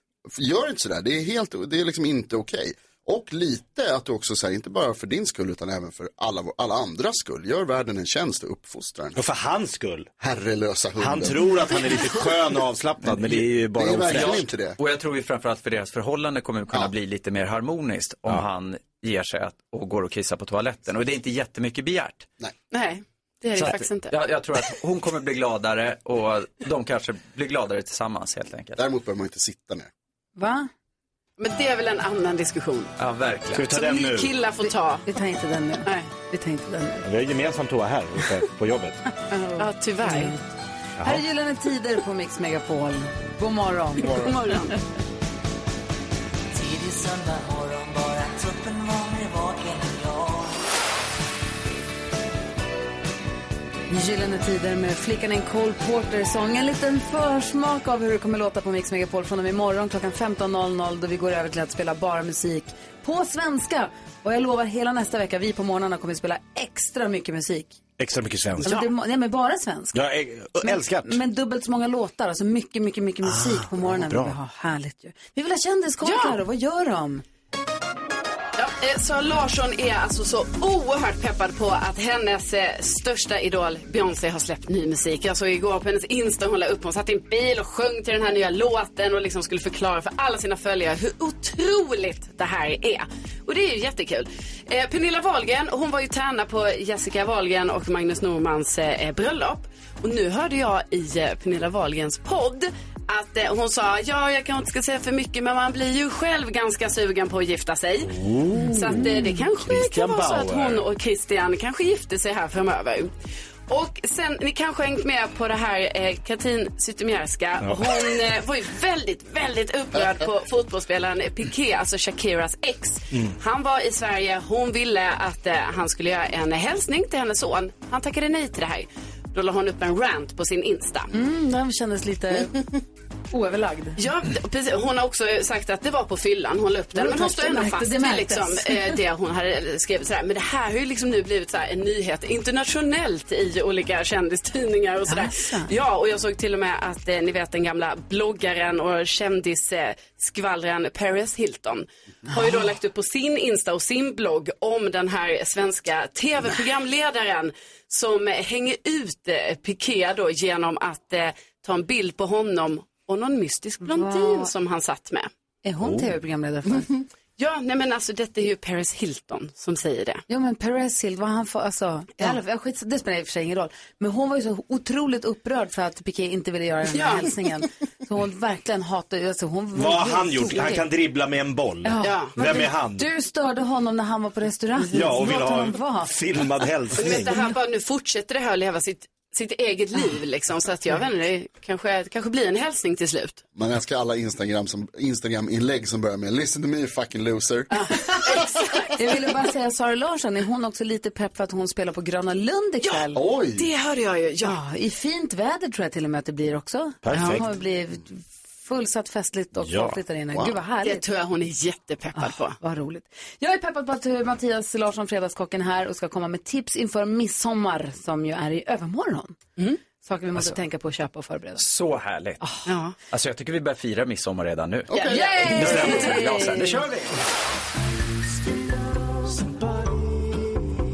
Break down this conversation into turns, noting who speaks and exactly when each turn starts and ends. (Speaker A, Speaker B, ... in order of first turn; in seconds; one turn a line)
Speaker A: 0.3-9.2
Speaker B: 9.1-10.1
Speaker A: 10.2-11.7
Speaker B: 11.0-14.4
Speaker A: 13.7-14.8
Speaker C: 14.0-22.3
Speaker D: 22.7-24.1
Speaker C: 23.5-28.8
Speaker A: 28.8-29.9
Speaker E: 30.4-30.7
Speaker D: 31.4-32.9
Speaker C: 33.0-33.7
Speaker B: 33.5-34.3
Speaker D: 33.7-35.1
Speaker E: 34.6-37.0
Speaker B: 37.0-39.0
Speaker E: 39.3-40.4
Speaker D: 39.5-40.4
Speaker E: 41.0-44.4
Speaker D: 44.0-44.7
Speaker F: 46.5-50.6
Speaker E: 53.9-67.8
Speaker B: 68.0-68.8
Speaker E: 68.6-70.0
Speaker B: 69.9-71.2
Speaker E: 70.6-77.2
Speaker B: 73.2-74.3
Speaker D: 76.0-76.3
Speaker D: 78.5-108.1
Speaker B: 108.0-110.8
Speaker E: 108.5-109.4
Speaker D: 108.7-113.1
Speaker D: 113.7-131.1
Speaker B: 117.6-118.0
Speaker E: 131.1-132.6
Speaker E: 133.3-134.0
Speaker D: 134.0-165.3
Speaker E: 136.9-139.0
Speaker E: 145.1-145.7
Speaker E: 163.8-164.5
Speaker E: 165.6-166.9
Speaker B: 165.8-166.1
Speaker D: 167.4-170.2
Speaker E: 170.3-180.9
Speaker D: 176.9-177.3
Speaker B: 179.7-183.1
Speaker E: 181.8-186.1
Speaker D: 182.0-182.3
Speaker B: 184.9-187.5
Speaker D: 187.0-193.4
Speaker A: 193.5-197.7
Speaker D: 197.7-198.9
Speaker E: 198.9-203.2
Speaker D: 202.8-204.6
Speaker A: 203.1-203.7
Speaker E: 204.4-211.0
Speaker B: 207.0-207.4
Speaker B: 209.6-210.0
Speaker D: 210.8-212.6
Speaker E: 212.1-219.4
Speaker E: 219.9-221.6
Speaker C: 221.6-222.4
Speaker E: 222.4-222.7
Speaker D: 222.7-223.0
Speaker C: 223.1-227.2
Speaker A: 224.9-225.5
Speaker D: 224.9-226.1
Speaker E: 225.0-226.8
Speaker B: 225.5-226.2